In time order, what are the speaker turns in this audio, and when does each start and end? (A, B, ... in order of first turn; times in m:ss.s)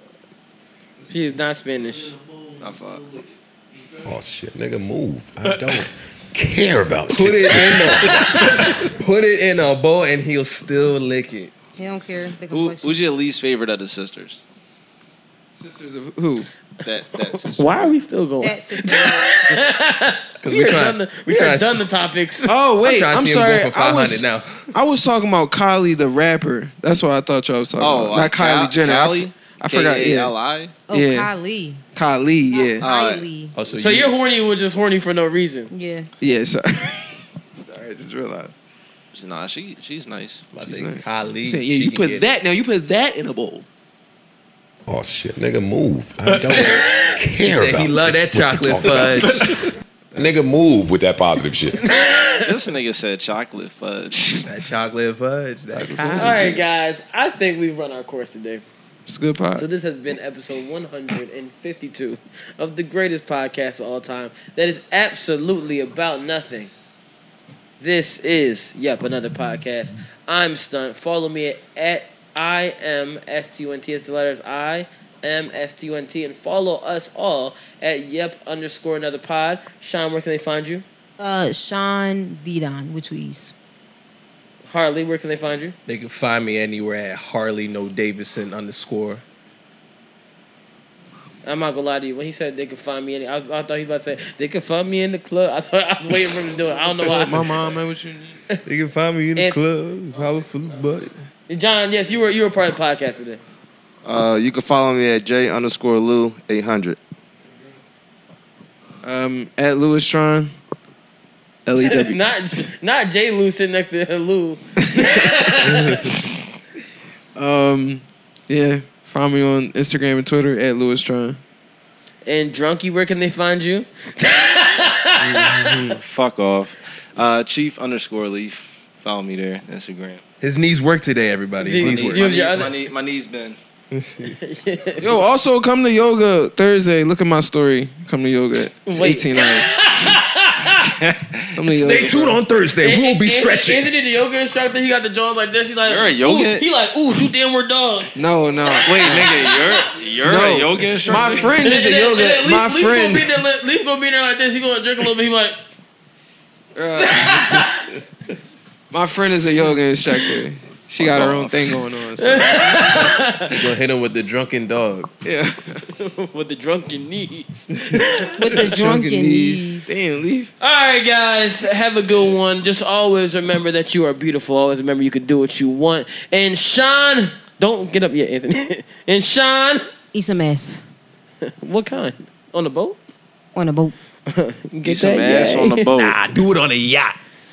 0:01.0-0:04.1 A
0:01.1-0:02.1 B
0:02.6-0:03.0 C
0:04.0-0:08.7 D
0:07.1-0:11.5 E
0:11.8-0:13.0 F
0:12.5-0:14.4 C
0:15.5-0:16.5 A
0:16.8-0:17.9 C
0:17.6-0:22.6 B
0:18.4-0:19.3 F
0:20.4-0:21.8 E
0:22.5-0:30.3 A
0:22.8-0:24.7 E
0:27.8-0:30.7 C
0:30.9-0:31.8 F
0:30.9-0:31.3 A
0:32.0-0:32.8 A
0:32.5-0:33.5 F
0:32.8-0:33.3 C
0:33.6-0:34.1 E
0:33.8-0:35.7 B
0:35.7-0:36.1 F
0:36.2-0:38.6 A
0:39.1-0:40.5 C
0:40.5-0:42.3 E
0:40.6-0:43.6 A
0:44.9-0:51.8 D
0:47.4-0:50.4 E
0:51.8-0:52.5 B
0:52.4-0:54.4 C
0:54.4-0:56.6 E
0:55.7-0:56.6 A
0:56.2-0:58.6 B
0:59.1-0:59.7 A
0:59.6-1:06.7 B
1:07.8-1:20.8 B
1:21.2-1:23.5 F
1:24.7-1:25.8 B
1:25.9-1:29.2 E
1:31.4-1:37.5 B
1:37.0-1:38.4 A
1:38.6-1:41.2 E
1:39.4-1:39.6 B
1:41.5-1:43.4 B
1:44.0-1:47.0 G
1:49.0-1:50.5 A
1:51.7-1:52.2 A
1:51.8-1:56.0 B
1:54.8-1:56.3 A
1:55.6-1:56.1 E
1:57.4-2:01.4 A
2:02.2-2:06.0 B
2:05.2-2:05.8 E
2:06.0-2:10.2 C
2:10.4-2:12.3 E
2:11.6-2:12.8 B
2:11.8-2:13.6 C
2:13.9-2:14.4 E
2:14.4-2:15.2 B
2:15.0-2:19.8 A
2:18.9-2:20.7 B
2:20.9-2:21.5 C
2:21.6-2:22.4 A
2:21.7-2:23.9 E
2:22.8-2:28.2 B
2:25.9-2:26.6 C
2:28.2-2:33.3 A
2:28.7-2:30.0 B
2:28.8-2:31.7 C
2:31.4-2:35.6 B
2:36.8-2:37.7 A
2:37.0-2:37.9 B
2:38.9-2:43.2 A
2:41.0-2:41.6 C
2:42.2-2:43.6 B
2:43.6-2:45.1 E
2:45.2-2:45.8 A
2:45.8-2:48.6 B
2:48.4-2:50.1 F
2:48.5-2:50.5 A
2:50.6-2:59.8 B
3:00.1-3:00.9 F
3:01.5-3:03.0 B
3:03.6-3:04.0 F
3:04.3-3:05.9 B
3:04.8-3:06.2 C
3:05.9-3:07.2 E